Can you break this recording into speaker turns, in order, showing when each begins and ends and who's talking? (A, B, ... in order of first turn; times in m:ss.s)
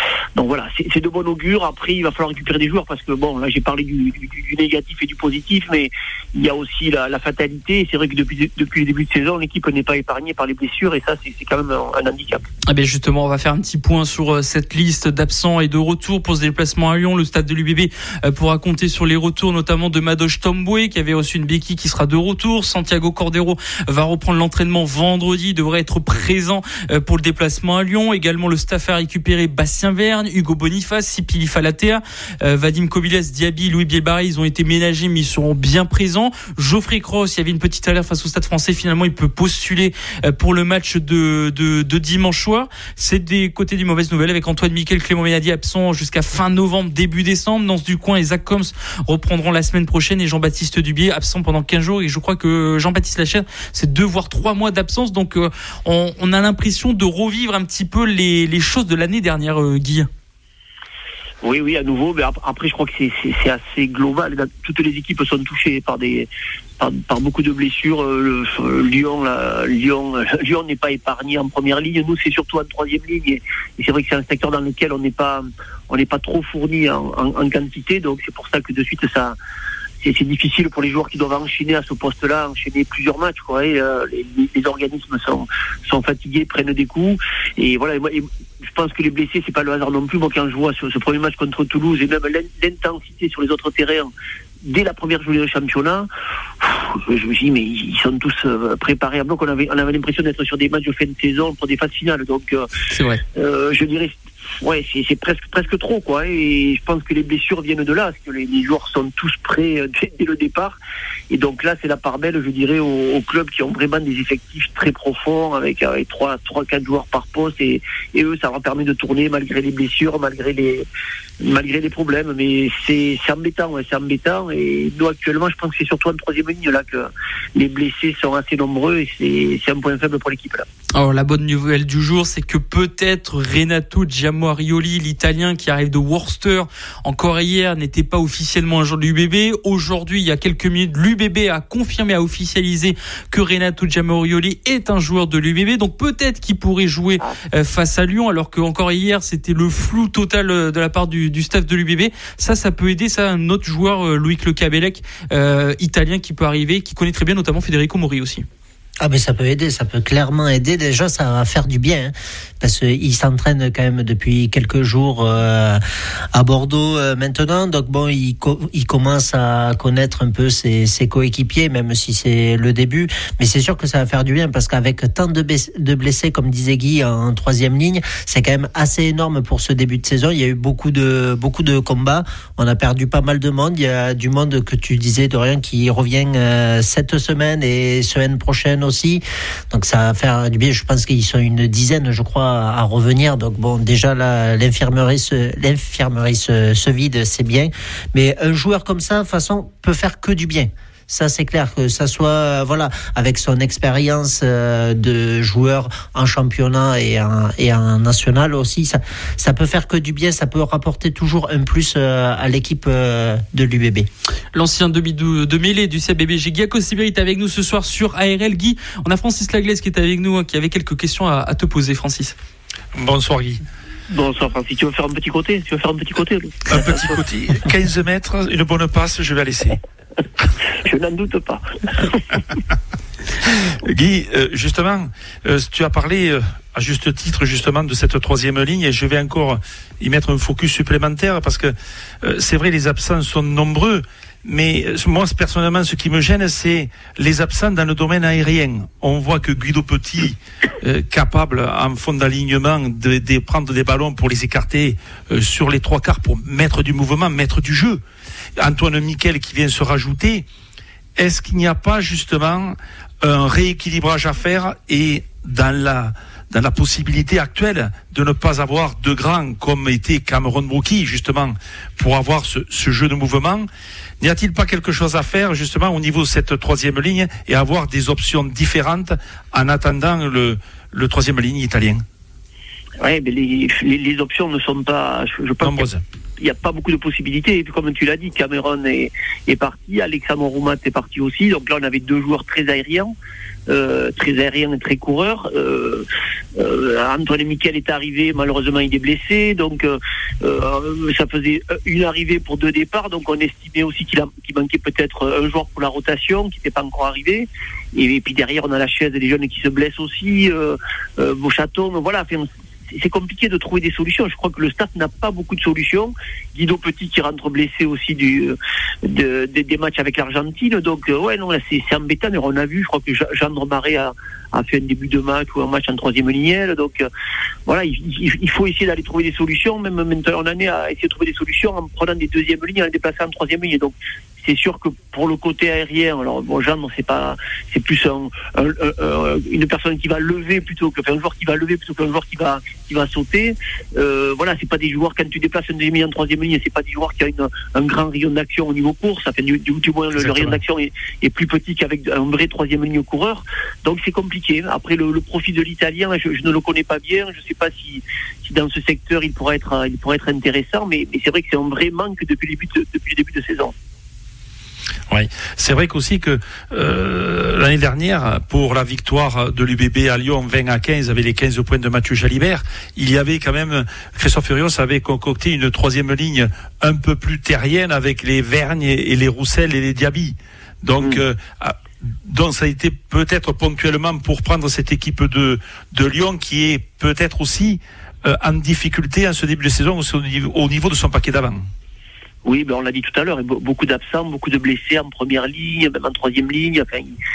0:00.4-0:12.4 A
0:12.7-1:00.1 B
1:01.4-1:19.4 A
1:20.0-1:34.1 A
1:34.6-1:36.1 A
1:36.6-1:42.7 A
1:42.9-1:43.2 B
1:43.3-1:50.8 A
1:51.3-2:00.8 A
2:01.4-2:10.7 A
2:10.9-2:38.4 B
2:39.0-2:45.8 C
2:46.3-3:34.1 C
3:34.5-3:42.3 B
3:42.9-3:43.6 D
3:44.1-3:46.8 A
3:46.7-3:49.8 D
3:50.8-3:52.4 A
3:53.8-4:18.0 D
4:18.6-4:20.4 D
4:21.2-4:33.7 D
4:34.2-4:42.0 D
4:43.0-4:45.8 A
4:45.6-4:46.0 D
4:46.4-4:53.1 A
4:53.7-4:56.0 A
4:56.6-5:27.1 A
5:27.7-6:03.7 A
5:50.2-5:50.5 D
6:05.1-6:31.7 D
6:32.4-6:37.1 A